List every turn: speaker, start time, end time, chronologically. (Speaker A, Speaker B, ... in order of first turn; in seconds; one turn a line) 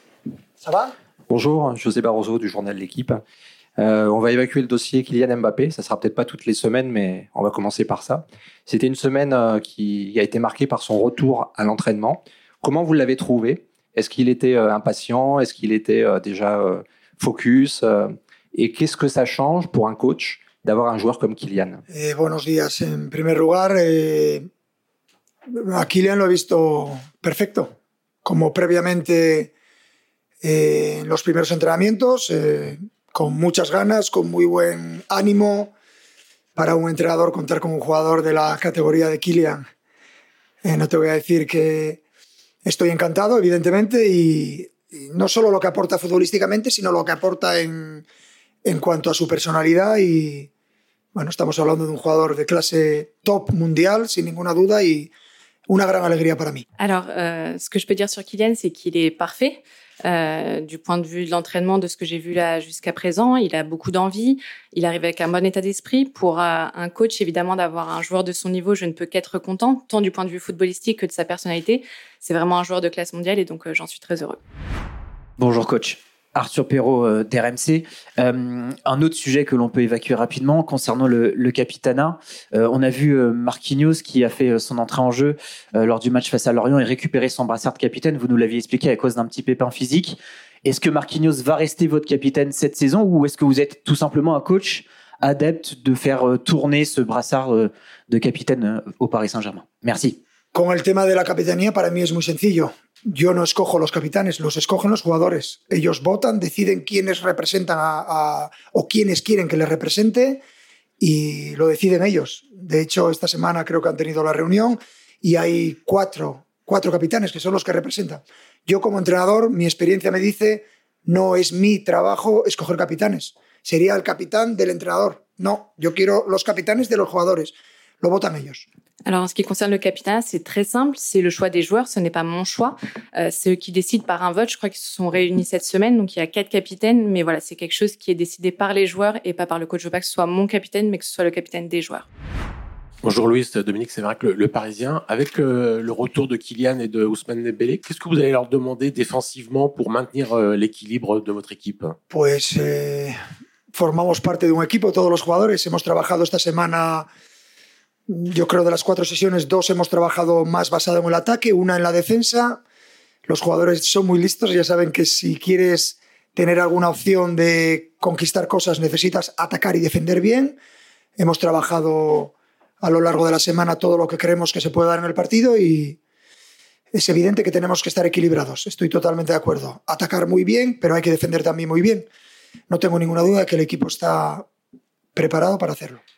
Speaker A: 0.6-0.9
Speaker B: 1.3-3.2
Speaker B: 3.8-21.8
Speaker A: 21.9-24.5
Speaker A: 25.5-27.7
Speaker A: 28.2-29.5
Speaker A: 30.4-35.7
Speaker A: 36.5-39.6
Speaker A: 40.6-42.0
Speaker A: 42.6-48.0
Speaker A: 48.6-50.5
Speaker A: 51.1-55.1
Speaker A: 55.7-56.6
Speaker C: 56.8-74.4
Speaker D: 75.4-100.2
Speaker A: 100.5-110.4
Speaker A: 111.0-128.7
Speaker C: 129.1-142.1
Speaker E: 143.0-151.9
Speaker A: 152.1-153.2
Speaker A: 153.7-157.1
Speaker A: 158.1-162.6
Speaker A: 163.2-170.6
Speaker A: 171.2-176.0
Speaker A: 176.9-182.1
Speaker A: 182.7-184.5
Speaker A: 185.1-186.0